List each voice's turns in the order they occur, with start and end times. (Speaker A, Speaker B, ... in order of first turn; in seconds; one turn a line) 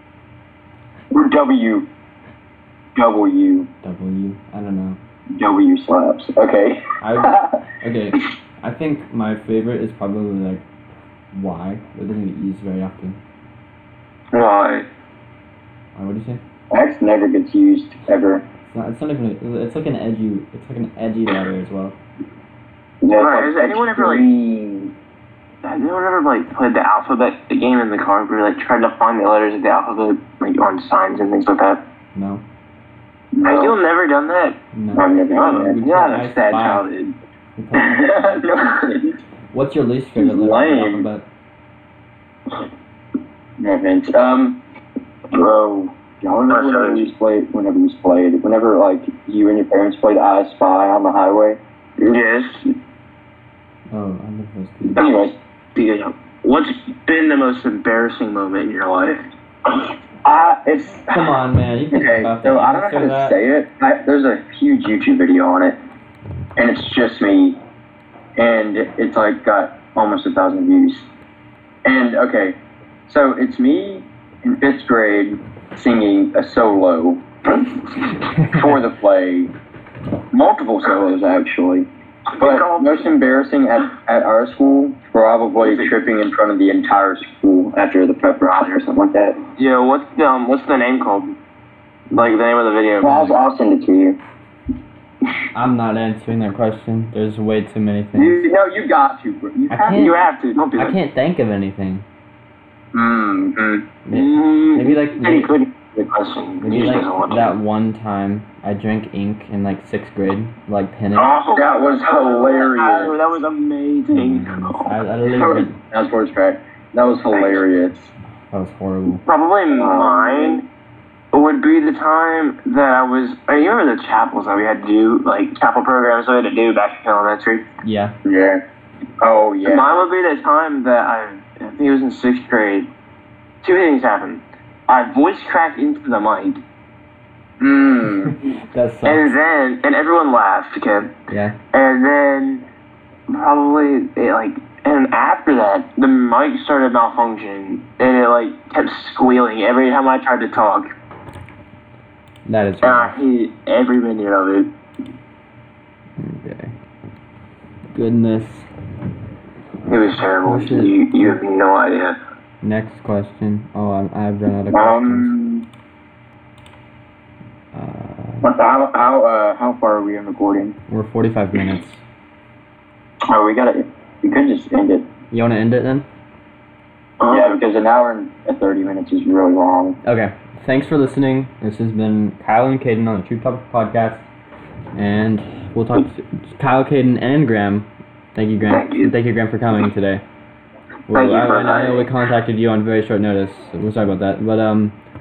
Speaker A: 1.1-1.9
Speaker A: 3.0-3.7
Speaker B: 3.8-5.0
Speaker A: 5.3-7.6
Speaker B: 7.0-10.7
Speaker B: 11.3-13.2
Speaker C: 14.3-14.9
Speaker B: 15.9-16.4
Speaker A: 16.7-18.4
Speaker B: 18.6-22.0
Speaker A: 23.0-24.9
Speaker C: 23.1-24.3
Speaker C: 25.6-31.8
Speaker B: 32.1-32.4
Speaker A: 33.3-33.8
Speaker C: 33.4-34.6
Speaker B: 34.7-36.9
Speaker A: 34.9-35.8
Speaker C: 35.1-37.1
Speaker B: 37.5-38.5
Speaker A: 38.1-39.2
Speaker B: 39.5-41.2
Speaker A: 40.2-40.9
Speaker C: 40.2-41.0
Speaker A: 43.6-44.6
Speaker A: 45.3-51.6
Speaker C: 46.5-47.0
Speaker C: 52.0-52.7
Speaker B: 53.9-55.0
Speaker A: 54.9-55.4
Speaker C: 55.7-59.3
Speaker A: 60.2-61.3
Speaker B: 61.1-63.4
Speaker A: 61.9-65.8
Speaker A: 66.5-67.6
Speaker A: 68.4-71.1
Speaker A: 71.8-77.2
Speaker B: 78.2-78.6
Speaker A: 78.5-79.5
Speaker A: 80.3-81.9
Speaker C: 82.3-83.1
Speaker A: 82.4-89.4
Speaker C: 85.6-85.9
Speaker C: 89.6-91.3
Speaker C: 92.1-93.3
Speaker A: 93.0-94.2
Speaker B: 95.5-98.5
Speaker A: 98.1-100.2
Speaker B: 99.7-100.1
Speaker C: 99.9-101.0
Speaker B: 100.8-102.0
Speaker A: 102.9-103.8
Speaker B: 104.0-105.5
Speaker C: 104.1-107.5
Speaker B: 106.6-111.4
Speaker C: 111.2-115.0
Speaker A: 111.5-113.1
Speaker B: 114.1-115.8
Speaker A: 115.3-118.1
Speaker C: 117.3-117.6
Speaker B: 118.5-119.2
Speaker C: 119.2-120.7
Speaker A: 119.7-120.6
Speaker C: 121.3-127.6
Speaker B: 127.8-128.1
Speaker A: 128.2-128.6
Speaker A: 129.2-130.0
Speaker C: 129.6-132.9
Speaker C: 133.6-136.6
Speaker A: 137.6-138.4
Speaker B: 138.2-139.3
Speaker C: 139.1-141.1
Speaker B: 141.3-141.6
Speaker C: 141.7-142.7
Speaker C: 143.3-150.9
Speaker B: 152.4-153.2
Speaker C: 152.8-154.7
Speaker B: 156.2-156.7
Speaker B: 157.9-158.7
Speaker C: 159.9-162.2
Speaker B: 160.4-161.3
Speaker B: 162.6-165.3
Speaker A: 164.7-165.6
Speaker B: 167.7-168.5
Speaker A: 168.4-170.8
Speaker B: 170.9-172.0
Speaker A: 173.3-175.1
Speaker B: 175.3-176.1
Speaker C: 177.2-177.6
Speaker A: 177.3-180.0
Speaker B: 180.0-184.3
Speaker B: 184.9-190.2
Speaker C: 188.7-189.1
Speaker B: 191.1-194.9
Speaker C: 191.1-192.1